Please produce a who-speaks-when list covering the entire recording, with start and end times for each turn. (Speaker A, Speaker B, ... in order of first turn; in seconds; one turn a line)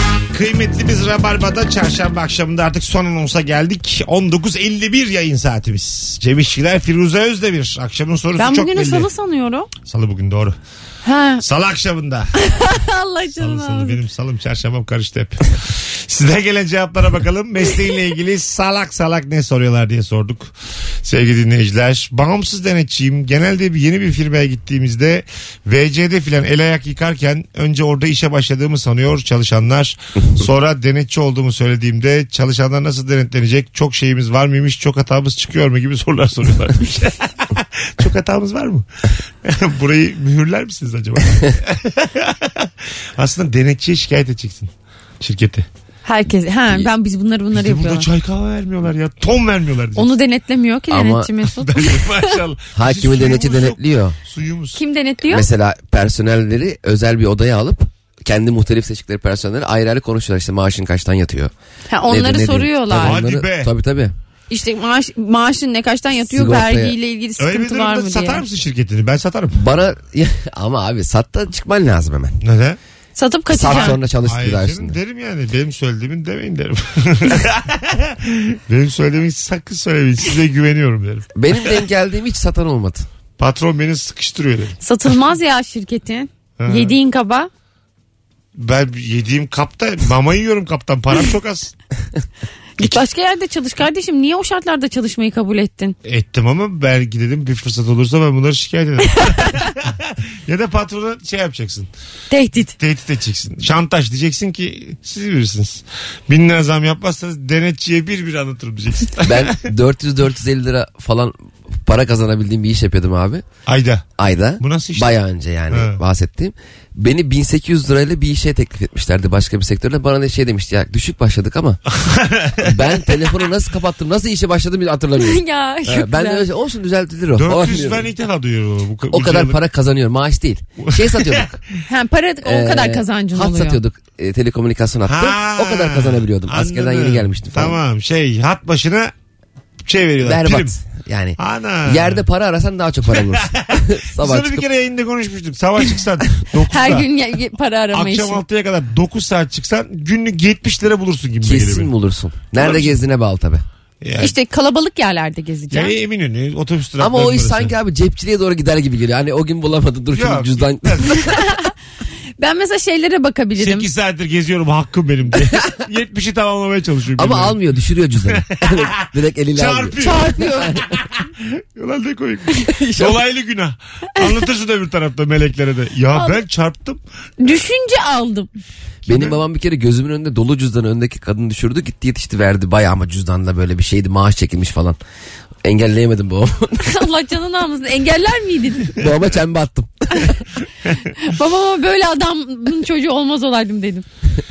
Speaker A: 0.3-9.1
Speaker B: 8.4-9.7
Speaker A: 9.8-10.6
Speaker B: 11.0-11.4
Speaker A: 11.4-12.3
Speaker B: 12.3-14.0
Speaker A: 13.3-20.5
Speaker A: 21.0-45.7
Speaker B: 46.0-48.1
Speaker A: 47.5-50.1
Speaker B: 50.0-52.0
Speaker C: 50.9-51.3
Speaker A: 51.6-54.8
Speaker C: 52.7-54.2
Speaker B: 54.7-55.5
Speaker C: 55.3-61.5
Speaker B: 61.9-63.2
Speaker C: 62.1-64.1
Speaker A: 62.9-63.7
Speaker B: 64.5-68.4
Speaker C: 66.3-67.0
Speaker A: 67.4-69.6
Speaker C: 69.5-72.4
Speaker A: 72.4-72.8
Speaker B: 73.1-74.0
Speaker C: 73.5-75.0
Speaker A: 73.7-81.3
Speaker C: 81.3-83.1
Speaker A: 83.4-84.8
Speaker B: 84.8-87.5
Speaker A: 86.6-86.9
Speaker A: 88.5-91.8
Speaker B: 92.8-96.0
Speaker A: 96.0-101.9
Speaker B: 102.3-102.7
Speaker A: 102.8-109.5
Speaker C: 109.2-113.4
Speaker A: 113.7-114.0
Speaker C: 114.2-121.8
Speaker A: 114.6-115.2
Speaker A: 121.9-123.0
Speaker C: 122.6-128.1
Speaker B: 125.2-126.4
Speaker A: 127.3-129.6
Speaker C: 129.1-131.6
Speaker A: 130.9-131.4
Speaker B: 131.8-133.8
Speaker C: 132.4-137.8
Speaker A: 135.1-139.1
Speaker A: 139.8-140.7
Speaker C: 140.2-144.7
Speaker A: 141.4-142.2
Speaker A: 143.1-147.1
Speaker B: 146.7-148.4
Speaker A: 147.9-151.9
Speaker C: 151.4-153.6
Speaker A: 152.6-152.9
Speaker A: 154.0-154.3
Speaker B: 154.2-155.9
Speaker A: 155.7-157.7
Speaker C: 157.0-161.1
Speaker A: 160.1-161.3
Speaker B: 161.2-161.7
Speaker B: 162.4-163.9
Speaker A: 163.6-167.5
Speaker C: 167.2-170.9
Speaker A: 168.3-177.0
Speaker B: 170.0-170.8
Speaker C: 172.8-173.2
Speaker B: 176.1-176.4
Speaker B: 177.4-178.5
Speaker A: 179.1-179.4
Speaker C: 179.1-185.0
Speaker C: 185.6-186.9
Speaker B: 186.8-189.0
Speaker C: 188.9-190.3
Speaker B: 191.2-194.1